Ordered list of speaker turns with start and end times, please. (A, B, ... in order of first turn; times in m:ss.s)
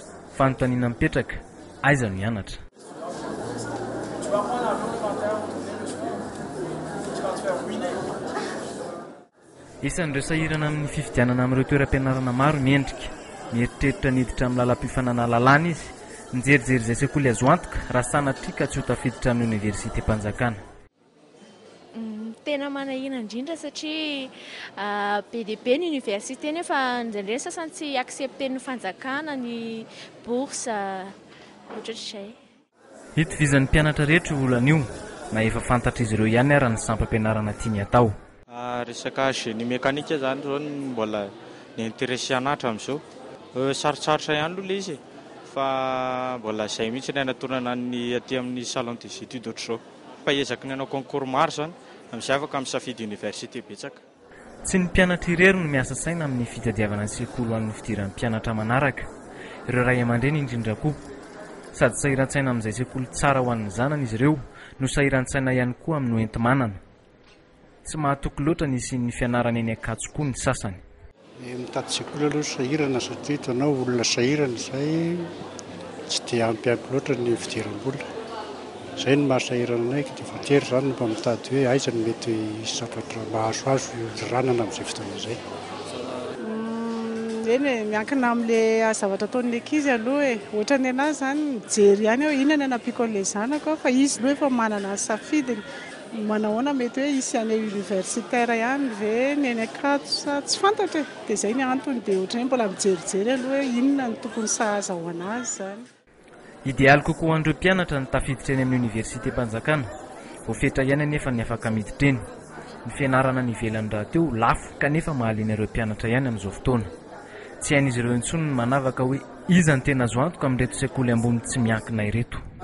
0:00.3-0:02.6 A
0:09.8-0:20.6 A
0:21.9-0:31.1 B
0:31.7-0:32.4 B
0:33.2-0:38.1 A
0:38.5-0:43.0 C
0:43.5-0:54.0 C
0:54.6-0:59.1 A
0:59.7-1:01.0 A
1:01.7-1:06.8 A
1:07.8-1:10.8 A
1:11.4-1:15.3 D
1:16.1-1:18.0 D
1:19.0-1:25.4 D
1:26.4-1:45.8 E
1:46.6-1:49.9 A
1:50.4-1:52.2 A
1:52.8-1:56.9 A
1:57.6-2:02.4 A